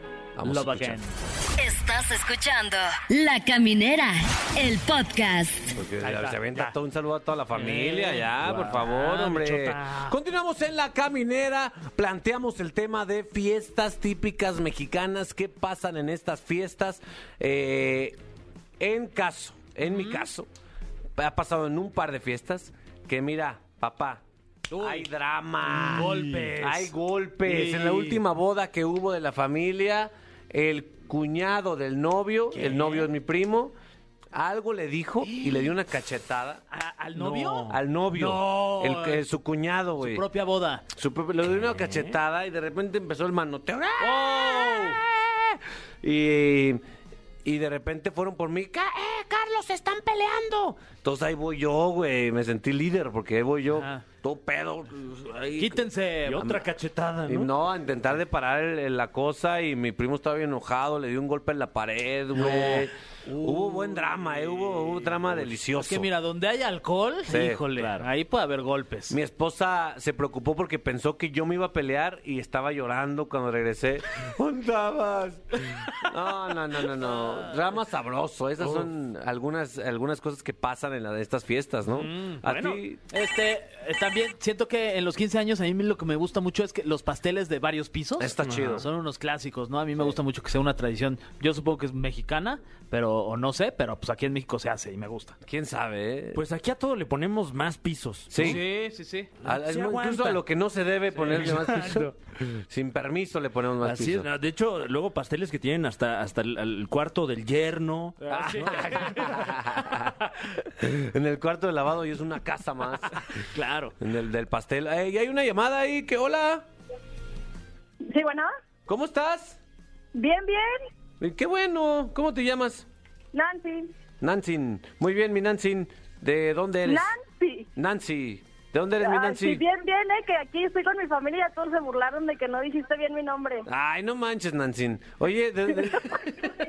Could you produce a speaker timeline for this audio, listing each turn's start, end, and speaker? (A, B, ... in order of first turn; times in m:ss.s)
0:00.4-0:01.0 A
0:00.4-0:01.2 B
0:01.6-0:05.7 C
0:05.7-0:18.2 A
0:06.0-0:06.8 B
0:07.5-0:10.2 B
0:18.8-0:20.5 A
0:19.8-0:20.2 B
0:21.2-0:24.2 A
0:24.7-0:25.1 B
0:24.8-0:33.7 A
0:25.7-0:26.4 D
0:25.7-0:28.2 B
0:32.6-0:33.0 B
0:34.3-0:36.6 A
0:35.2-0:35.7 B
0:36.7-0:39.2 B
0:37.2-0:37.8 D
0:37.7-0:40.2 A
0:40.0-0:40.8 B
0:41.0-0:46.8 A
0:41.4-0:42.2 D
0:44.0-0:45.0 B
0:47.4-0:55.8 A
0:53.8-0:54.0 B
0:55.6-0:56.5 B
0:56.3-0:57.5 D
0:57.3-1:06.1 A
1:02.4-1:02.8 D
1:03.3-1:03.7 D
1:04.6-1:05.4 D
1:05.8-1:09.2 B
1:07.3-1:07.6 A
1:07.8-1:08.1 D
1:09.1-1:23.0 A
1:18.6-1:18.8 D
1:21.9-1:22.4 B
1:22.4-1:22.8 D
1:23.1-1:35.3 B
1:28.2-1:28.8 A
1:28.4-1:28.8 D
1:35.4-1:36.4 A
1:36.3-1:38.6 D
1:38.3-1:38.6 A
1:38.4-1:39.3 B
1:39.4-1:40.4 D
1:39.4-1:44.3 A
1:41.2-1:42.2 D
1:43.8-1:49.5 D
1:48.2-1:49.3 B
1:48.3-1:53.2 A
1:53.4-1:54.0 D
1:54.0-1:56.6 A
1:58.0-1:58.5 E
1:58.9-1:59.6 A
2:00.1-2:00.8 E
2:01.2-2:02.8 A
2:03.3-2:03.9 E
2:04.2-2:07.1 A
2:06.8-2:07.7 E
2:07.8-2:09.6 A
2:09.0-2:13.7 E
2:13.7-2:16.5 A